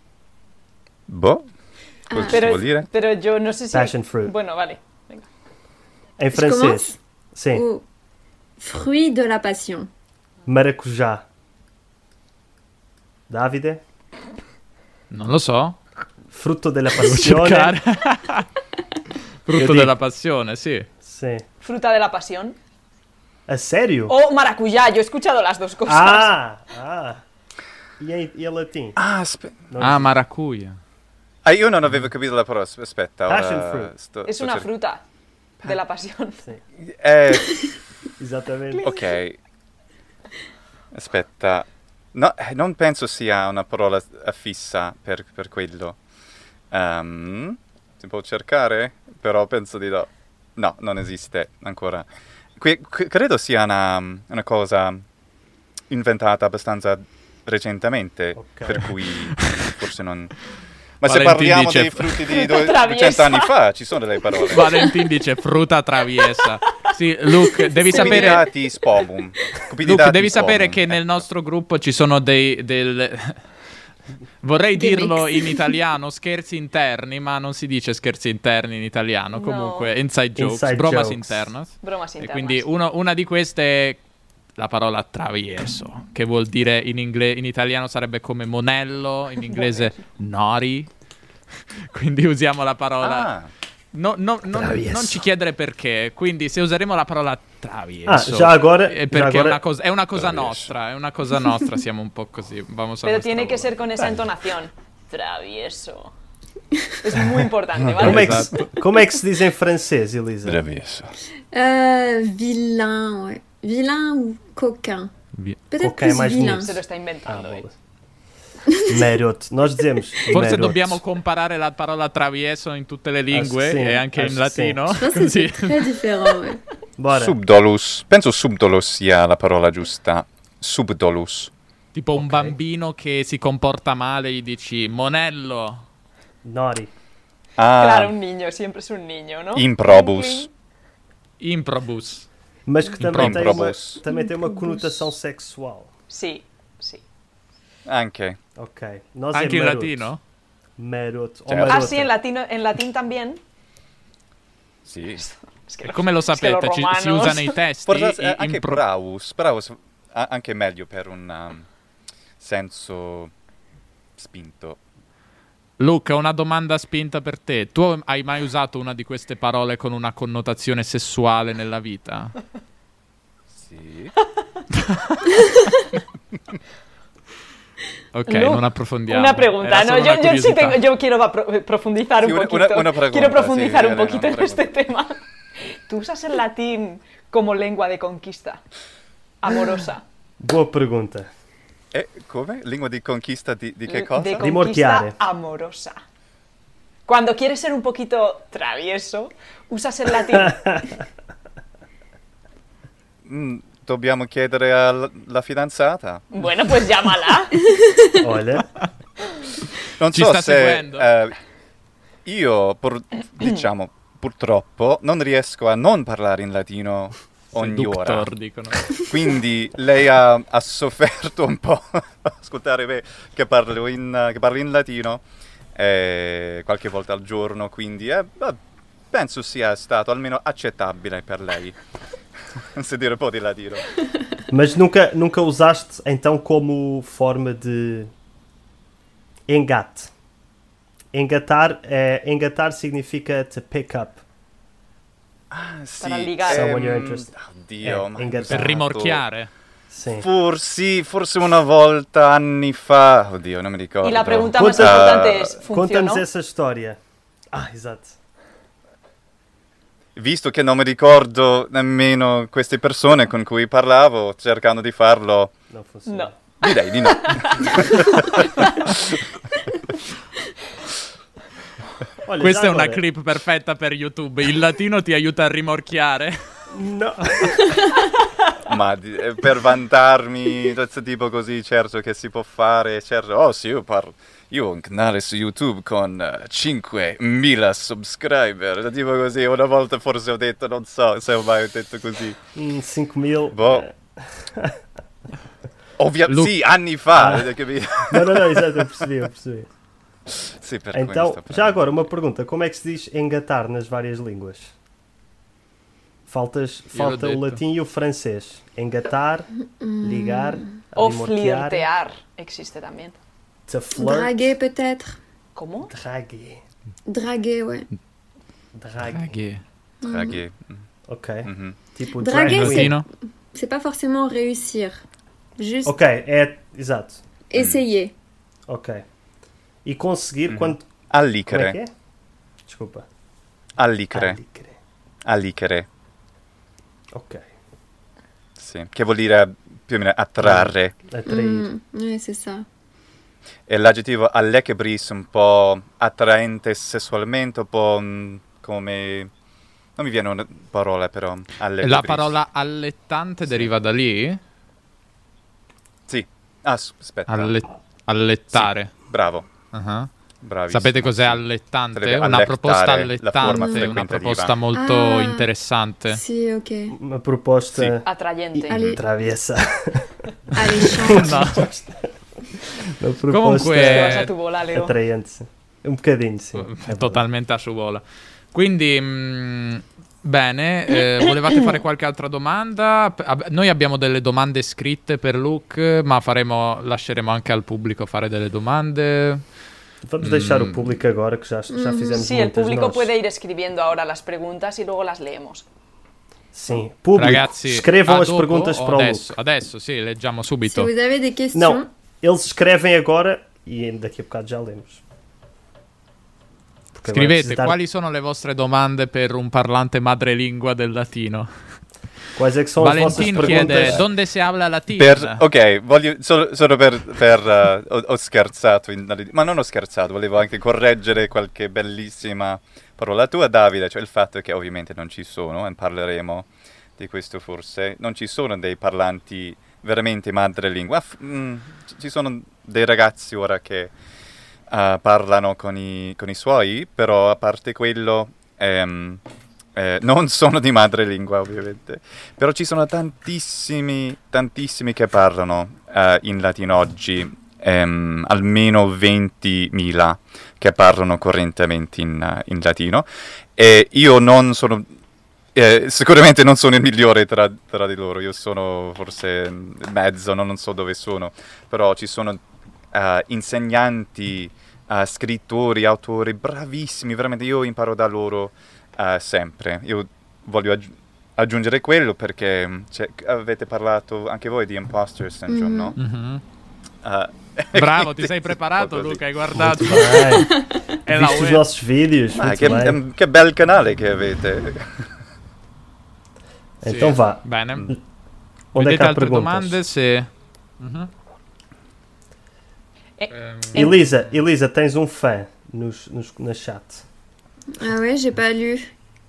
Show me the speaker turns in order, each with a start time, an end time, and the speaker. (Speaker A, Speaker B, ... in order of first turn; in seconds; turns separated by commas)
Speaker A: 1.1-1.5, Speaker B: 2.1-2.5, Speaker A: 2.1-2.9, Speaker C: 2.2-5.3, Speaker D: 3.7-4.3, Speaker D: 6.2-7.7, Speaker B: 6.3-7.0, Speaker B: 7.5-7.8, Speaker B: 8.6-9.9, Speaker D: 10.5-11.2, Speaker D: 13.3-13.8, Speaker E: 15.1-15.8, Speaker D: 16.3-17.8, Speaker E: 16.9-18.5, Speaker E: 19.5-20.9, Speaker D: 19.5-19.9, Speaker D: 21.0-21.4, Speaker C: 21.6-22.6, Speaker D: 23.5-24.1, Speaker C: 24.1-26.3, Speaker D: 25.9-27.2, Speaker D: 28.0-29.0, Speaker A: 29.0-29.7, Speaker D: 29.7-30.1, Speaker E: 29.8-30.8, Speaker A: 31.4-34.7, Speaker D: 33.3-33.9, Speaker C: 34.2-35.0, Speaker C: 35.6-36.4, Speaker A: 36.8-37.6, Speaker D: 38.2-38.9, Speaker A: 38.8-39.4, Speaker A: 40.9-46.0, Speaker A: 46.7-52.1, Speaker A: 52.6-55.0, Speaker A: 55.9-60.3, Speaker D: 58.4-58.8, Speaker E: 59.4-59.7, Speaker A: 61.0-64.7, Speaker E: 61.1-62.3, Speaker C: 62.3-63.5, Speaker E: 64.5-68.5, Speaker A: 67.9-71.2, Speaker C: 68.0-68.4, Speaker E: 69.8-73.4, Speaker E: 74.4-84.0, Speaker B: 74.8-75.7, Speaker C: 79.3-79.9, Speaker D: 80.4-81.5, Speaker C: 81.8-82.7, Speaker E: 84.6-90.9, Speaker E: 91.8-93.3, Speaker A: 93.0-93.5, Speaker E: 93.9-103.7, Speaker D: 94.5-95.2, Speaker D: 98.1-99.6, Speaker A: 100.1-100.7, Speaker C: 103.0-106.1, Speaker C: 107.0-108.4, Speaker D: 108.0-110.6, Speaker E: 108.0-108.6, Speaker A: 110.5-111.1, Speaker B: 111.5-115.1, Speaker E: 115.3-115.6, Speaker B: 115.7-116.8, Speaker D: 115.8-117.7, Speaker C: 116.6-117.6, Speaker B: 118.7-119.0, Speaker D: 118.9-121.0, Speaker E: 120.3-126.0, Speaker D: 123.3-124.9, Speaker B: 124.9-126.6, Speaker D: 127.0-127.4, Speaker A: 127.1-131.5, Speaker E: 131.9-135.8, Speaker D: 132.2-132.6, Speaker D: 136.4-136.9, Speaker A: 137.6-138.2, Speaker C: 137.8-140.5, Speaker A: 139.6-140.5, Speaker E: 141.4-142.3, Speaker D: 142.7-145.9, Speaker E: 143.0-143.7, Speaker A: 143.1-144.0, Speaker B: 144.1-145.1, Speaker C: 146.1-147.0, Speaker A: 147.9-148.4, Speaker D: 148.6-150.1, Speaker E: 149.3-150.2, Speaker D: 150.8-152.1, Speaker A: 151.5-151.9, Speaker C: 151.7-153.4, Speaker A: 154.8-155.2, Speaker C: 155.2-157.6, Speaker E: 155.8-158.8, Speaker A: 157.9-161.7, Speaker A: 162.4-163.3, Speaker A: 164.2-164.8, Speaker E: 165.8-172.4, Speaker A: 173.5-174.1, Speaker E: 178.1-180.8, Speaker C: 178.3-188.6, Speaker A: 182.2-184.7, Speaker C: 189.4-190.0, Speaker D: 190.4-191.3, Speaker A: 191.9-194.5, Speaker C: 193.9-196.0, Speaker D: 194.4-195.2, Speaker C: 197.1-200.6, Speaker D: 200.3-201.0, Speaker A: 203.2-206.3, Speaker C: 206.3-207.6, Speaker B: 207.7-208.2, Speaker D: 208.2-208.8, Speaker A: 210.0-211.4, Speaker E: 210.1-211.1, Speaker A: 212.2-218.3, Speaker E: 217.5-218.9, Speaker A: 219.0-225.2, Speaker A: 225.8-228.6, Speaker A: 229.1-231.8, Speaker A: 232.8-233.9, Speaker D: 234.5-238.1, Speaker D: 239.5-240.1, Speaker D: 241.1-244.2, Speaker A: 245.5-249.2, Speaker C: 246.0-246.7, Speaker D: 246.5-247.3, Speaker D: 247.8-248.9, Speaker E: 248.5-249.5, Speaker D: 249.9-250.3, Speaker A: 250.2-255.6, Speaker C: 254.0-256.2, Speaker D: 254.5-257.0, Speaker D: 257.5-258.2, Speaker A: 260.2-265.5, Speaker D: 265.7-266.4, Speaker C: 266.1-268.4, Speaker A: 266.6-269.2, Speaker D: 272.2-273.0, Speaker E: 272.4-276.4, Speaker D: 276.7-277.9, Speaker A: 278.6-292.4, Speaker D: 292.6-294.8, Speaker A: 293.5-293.9, Speaker A: 296.0-298.9, Speaker D: 297.1-297.5, Speaker D: 298.1-299.7, Speaker A: 300.4-301.9, Speaker D: 300.9-304.7, Speaker D: 306.3-309.5, Speaker E: 306.9-307.6, Speaker B: 309.6-310.8, Speaker D: 310.0-311.9, Speaker C: 311.0-313.2, Speaker D: 313.7-314.5, Speaker B: 314.0-315.2, Speaker C: 315.6-315.9, Speaker D: 315.9-316.6, Speaker B: 317.1-317.9, Speaker D: 318.7-319.4, Speaker E: 319.0-319.6, Speaker B: 320.0-320.4, Speaker A: 320.0-320.8, Speaker D: 321.1-323.0, Speaker A: 321.4-321.8, Speaker B: 322.2-325.0, Speaker E: 322.4-323.1, Speaker B: 325.6-326.0, Speaker D: 325.9-327.2, Speaker B: 327.5-328.1, Speaker A: 327.6-327.8, Speaker D: 328.7-329.0, Speaker D: 329.9-330.9, Speaker A: 330.5-331.8, Speaker D: 331.5-331.9, Speaker D: 332.7-333.1, Speaker A: 333.8-334.4, Speaker D: 334.1-334.8, Speaker A: 335.2-335.9, Speaker D: 337.1-337.5, Speaker A: 338.6-340.9, Speaker D: 340.4-341.7, Speaker B: 341.3-342.7, Speaker A: 343.7-349.3, Speaker A: 350.0-352.4, Speaker E: 351.8-354.4, Speaker A: 356.1-357.6, Speaker E: 357.3-358.9, Speaker A: 358.5-359.5, Speaker E: 359.7-360.1, Speaker A: 360.4-361.4, Speaker E: 360.7-366.2, Speaker A: 361.9-364.5, Speaker B: 363.4-364.0, Speaker B: 364.7-365.5, Speaker B: 366.1-367.0, Speaker D: 366.9-372.1, Speaker C: 368.0-369.0, Speaker B: 368.7-369.0, Speaker B: 370.5-371.6, Speaker E: 371.1-371.7, Speaker D: 372.8-377.2, Speaker E: 373.3-374.3, Speaker C: 373.7-374.9, Speaker E: 376.5-378.0, Speaker E: 378.5-389.4, Speaker D: 390.1-393.1, Speaker E: 390.2-390.9, Speaker B: 391.7-392.3, Speaker C: 392.1-395.6, Speaker D: 396.5-399.4, Speaker E: 397.2-400.9, Speaker B: 400.6-401.9, Speaker D: 401.5-405.0, Speaker D: 406.9-407.8, Speaker E: 407.1-411.5, Speaker D: 412.4-414.0, Speaker E: 412.8-415.4, Speaker A: 413.5-414.1, Speaker A: 415.0-433.9, Speaker A: 434.7-439.2, Speaker A: 439.8-454.9, Speaker A: 455.6-462.4, Speaker A: 462.9-476.0, Speaker B: 475.5-476.0, Speaker E: 476.0-476.4, Speaker A: 477.0-479.2, Speaker E: 477.7-480.5, Speaker D: 479.6-483.0, Speaker B: 480.4-480.8, Speaker E: 481.1-481.7, Speaker A: 482.3-485.1, Speaker D: 486.8-488.0, Speaker E: 486.9-487.9, Speaker D: 488.7-489.8, Speaker E: 488.7-490.3, Speaker E: 490.8-491.1, Speaker C: 493.2-494.0, Speaker E: 493.3-494.2, Speaker D: 493.7-497.0, Speaker B: 497.8-498.9